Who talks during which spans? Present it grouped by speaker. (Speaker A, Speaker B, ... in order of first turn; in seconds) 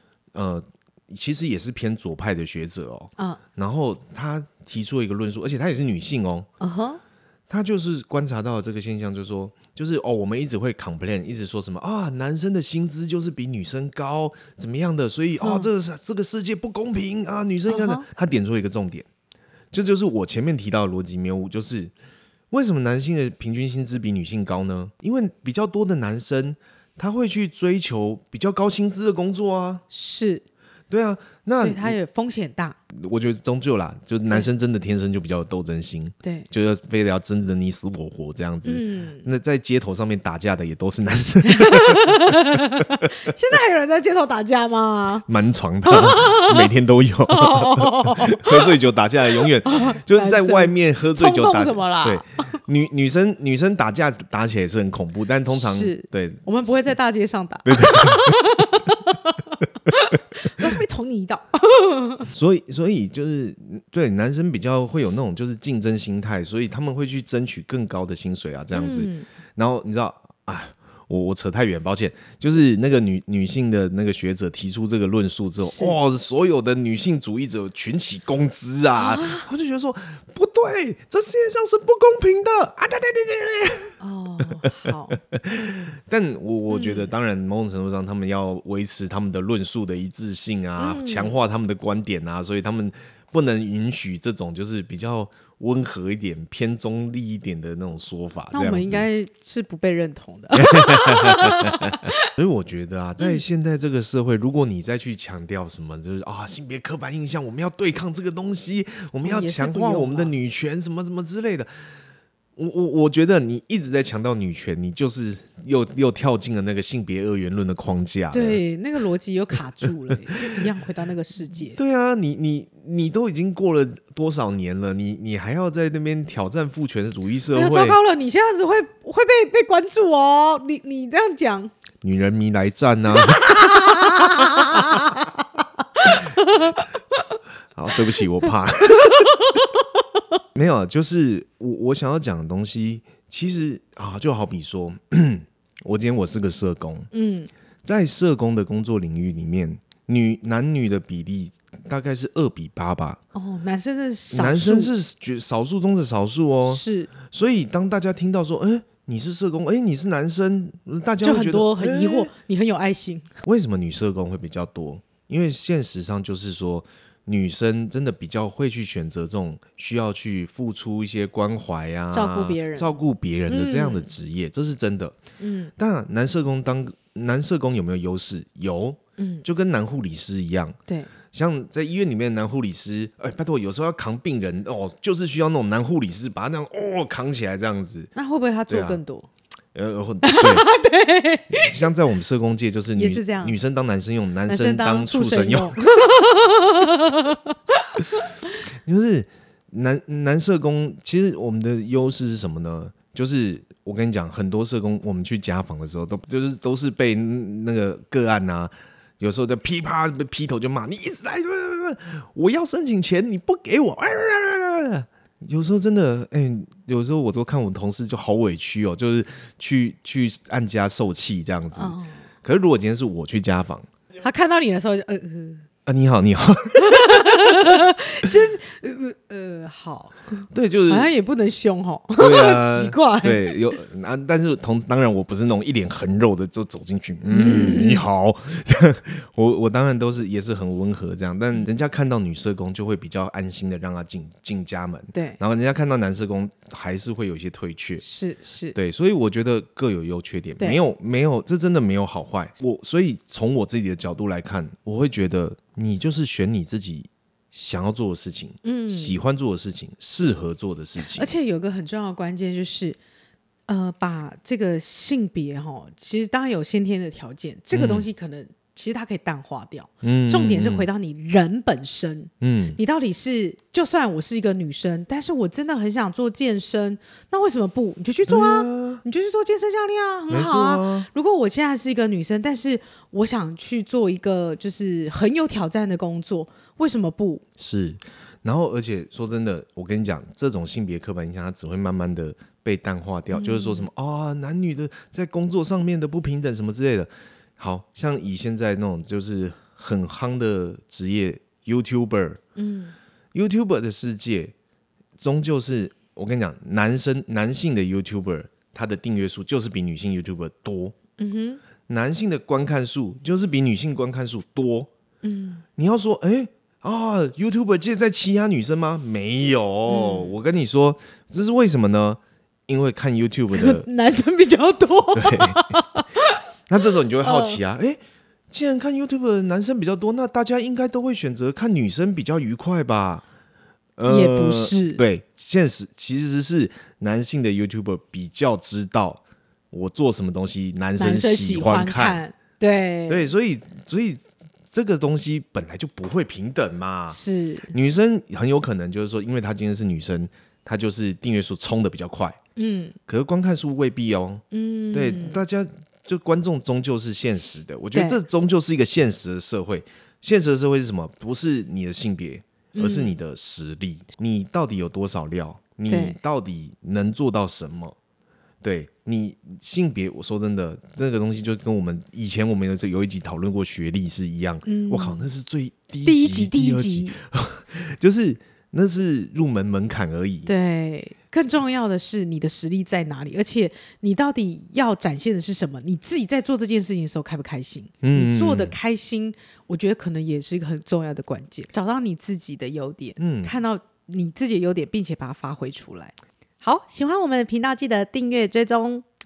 Speaker A: 0.3-6.5, 7.5-19.1, 19.7-21.9, 22.5-29.8, 30.9-32.0, 32.9-42.4, 45.3-56.5, 57.6-58.4, 62.3-84.0, 85.3-99.1, 100.6-111.7, 112.6-118.6, 121.7-128.0, 132.0-133.8, 137.8-139.3, 140.6-147.1, 147.8-153.2, 154.3-162.3, 163.4-175.2, 175.8-180.8, 181.3-188.1, 188.7-189.0, 189.7-190.7, 191.5-195.8, 198.8-223.9, 225.9-227.7, 230.5-231.1, 232.2-248.0, 248.8-261.3, 267.7-268.1, 270.0-270.9, 272.4-272.8, 278.3-279.0, 280.3-281.1, 287.6-302.4, 303.3-304.5, 305.2-310.9, 311.9-314.9, 315.8-323.9, 325.1-325.6, 326.7-333.2, 334.0-342.2, 343.1-344.2, 344.7-347.2, 347.7-352.4, 353.1-367.9, 368.6-380.5, 388.0-388.8, 393.2-393.6
Speaker B: 6.6-7.0, 15.4-15.7, 17.7-18.1, 29.9-30.4, 31.6-32.8, 38.6-39.3, 41.5-45.2, 45.8-46.7, 47.3-48.7, 49.4-52.6, 55.5-62.3, 68.7-69.3, 75.6-76.0, 79.0-79.5, 84.0-85.9, 86.7-87.1, 90.8-91.4, 98.5-102.2, 109.2-110.3, 118.3-121.8, 127.5-131.7, 133.2-136.9, 139.1-139.7, 147.1-147.5, 153.3-154.9, 156.7-157.1, 161.2-163.3, 172.1-172.9, 173.5-174.1, 175.4-175.7, 179.2-179.4, 188.2-189.3, 190.2-191.9, 192.9-193.6, 194.5-198.2, 221.8-222.2, 224.2-225.7, 226.8-233.6, 237.3-238.0, 245.1-245.4, 248.0-248.8, 258.6-259.2, 261.0-263.0, 263.7-287.4, 293.3-293.9, 302.6-302.9, 311.2-311.6, 315.2-315.6, 319.9-320.4, 323.5-326.4, 327.2-327.6, 334.1-335.0, 341.0-343.3, 347.1-347.7, 352.6-353.0, 354.5-355.4, 357.9-358.2, 362.7-363.1, 365.9-366.2, 374.6-375.3, 376.0-377.2, 380.5-399.0